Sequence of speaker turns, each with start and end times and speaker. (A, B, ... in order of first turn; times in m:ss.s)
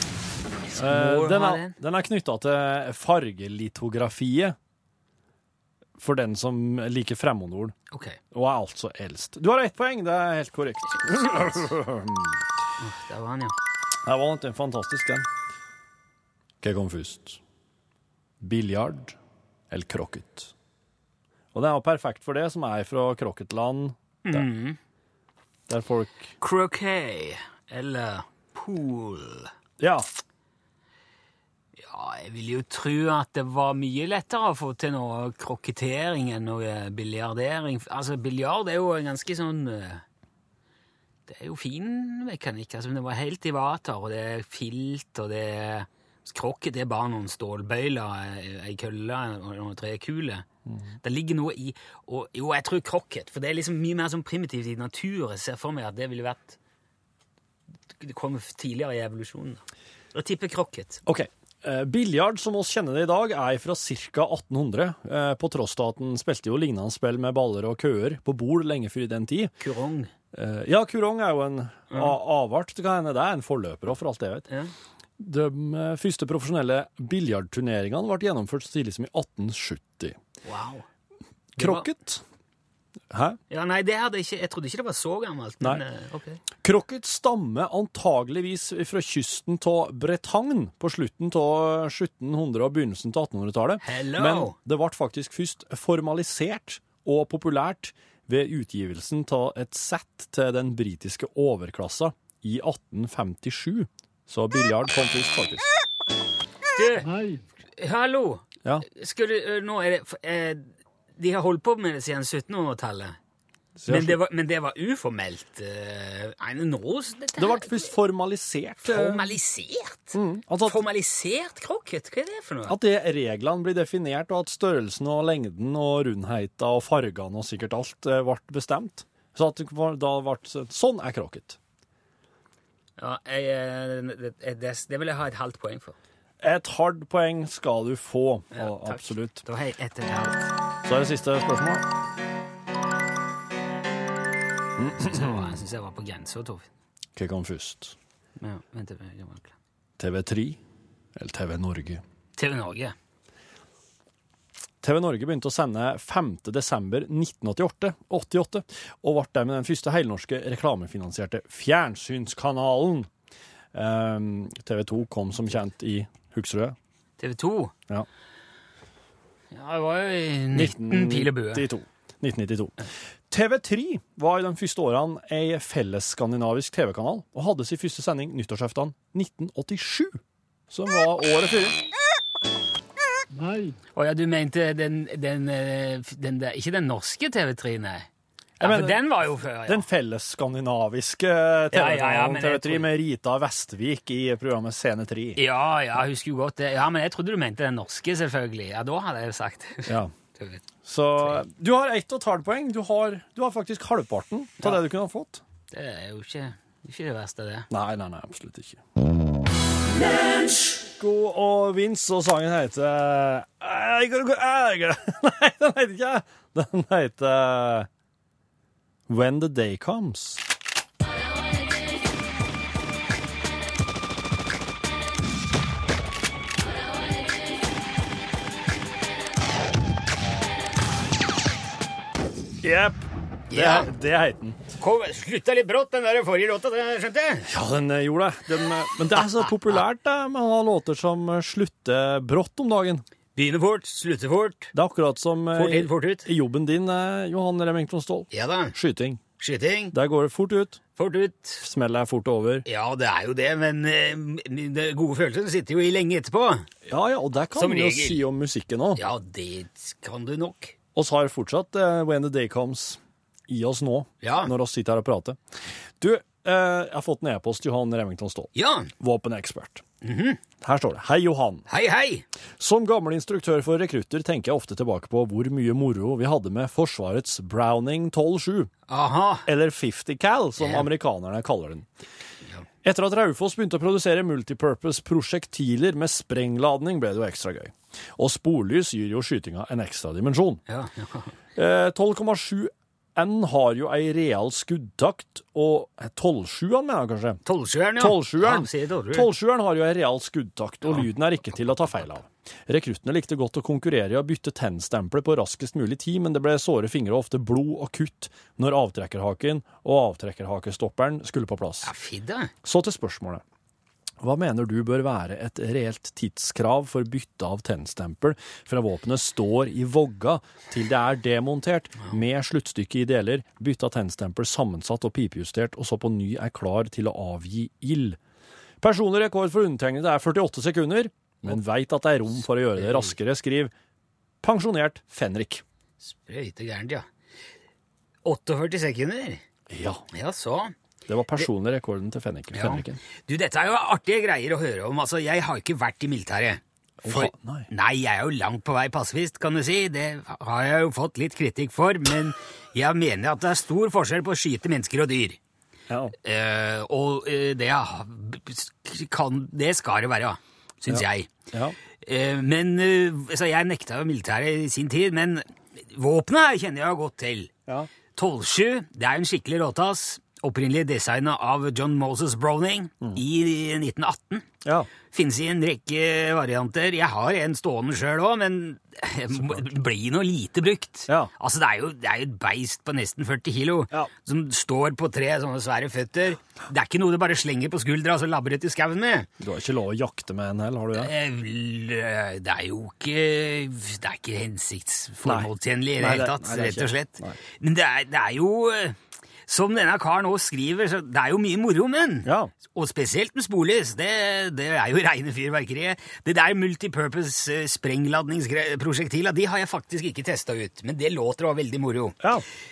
0:00.7-0:01.8 A
0:00.8-0:04.6 B
0:06.0-0:07.7 B
0:07.9-0:08.2 A
0:08.3-0:12.4 B
0:12.8-0:13.6 A
0:14.0-0:15.3 B
0:16.6-0:17.4 B
0:18.4-0:19.2 B
0:19.7-0:20.5 B
0:21.5-0:24.4 B
0:24.2-0:24.8 A
0:25.7-0:26.3 B
0:26.4-0:29.5 A
0:29.8-0:30.1 B
0:31.8-0:40.0 A
0:41.3-0:50.4 A
0:51.0-0:56.6 A
0:58.0-1:01.0 A
1:01.0-1:09.5 B
1:09.6-1:10.1 A
1:10.3-1:14.5 B
1:11.9-1:12.2 A
1:15.2-1:20.2 B
1:20.4-1:20.8 A
1:21.6-1:22.2 B
1:21.6-1:21.9 A
1:23.1-1:23.4 B
1:23.5-1:26.4 A
1:26.6-1:45.7 B
1:33.8-1:34.5 A
1:46.7-1:47.1 A
1:47.8-1:53.2 A
1:53.8-1:54.2 B
1:53.9-1:57.9 A
1:57.4-1:59.3 B
1:58.8-2:02.8 A
2:00.1-2:00.8 B
2:02.7-2:11.6 B
2:13.0-2:16.0 A
2:16.4-2:19.4 B
2:18.5-2:20.5 A
2:20.8-2:21.9 B
2:24.8-2:25.6 B
2:25.0-2:26.7 A
2:27.2-2:27.9 B
2:28.4-2:29.5 A
2:30.0-2:30.6 B
2:31.1-2:32.0 B
2:32.4-2:32.9 A
2:34.8-2:43.1 B
2:43.7-2:46.8 B
2:47.2-2:47.7 A
2:49.5-2:51.6 A
2:50.5-3:00.2 B
3:00.7-3:01.8 B
3:03.4-3:03.7 B
3:03.9-3:08.1 A
3:08.6-3:09.0 B
3:08.6-3:09.9 A
3:09.6-3:15.4 B
3:11.7-3:12.9 A
3:15.4-3:20.6 A
3:19.9-3:20.1 B
3:20.8-3:25.4 B
3:25.7-3:27.7 A
3:27.7-3:28.8 B
3:30.8-3:37.9 B
3:39.1-3:40.4 B
3:52.6-3:54.6 B
3:53.5-3:53.9 A
3:54.8-3:57.5 A
3:57.5-4:03.0 B
3:59.1-3:59.8 A
4:03.4-4:04.7 A
4:04.7-4:09.2 B
4:05.5-4:06.3 A
4:08.3-4:08.8 A
4:09.4-4:09.9 A
4:09.9-4:10.8 B
4:11.0-4:11.6 A
4:11.6-4:12.6 B
4:12.6-4:16.7 A
4:16.8-4:19.0 B
4:17.6-4:18.2 A
4:19.0-4:20.7 A
4:20.9-4:25.4 B
4:24.2-4:24.5 A
4:26.0-4:29.8 B
4:28.5-4:28.9 A
4:30.0-4:30.4 A
4:30.6-4:31.7 B
4:31.7-4:32.2 A
4:32.6-4:38.7 B
4:38.9-4:39.4 A
4:39.4-4:41.9 B
4:40.6-4:40.9 A
4:42.8-4:50.6 B
4:50.7-4:51.3 A
4:51.6-4:57.4 B
4:57.4-4:59.3 A
4:58.0-5:11.9 B
5:00.8-5:01.1 A
5:11.8-5:12.5 A
5:12.6-5:13.4 B
5:14.2-5:28.2 B
5:28.8-5:33.7 B
5:32.8-5:33.1 A
5:34.4-5:35.6 B
5:36.0-5:37.1 A
5:38.2-5:39.4 A
5:39.7-5:40.0 B
5:40.1-5:40.7 A
5:41.1-5:43.0 B
5:42.5-5:55.4 A
5:47.0-5:47.7 B
5:55.9-5:56.1 B
5:56.2-6:01.3 A
6:00.9-6:01.8 B
6:02.0-6:07.5 A
6:08.1-6:14.5 A
6:14.6-6:14.9 B
6:15.1-6:29.3 A
6:19.3-6:19.7 B
6:29.4-6:31.1 B
6:31.0-6:52.2 A
6:35.2-6:37.4 B
6:42.2-6:42.5 B
6:52.2-6:52.4 B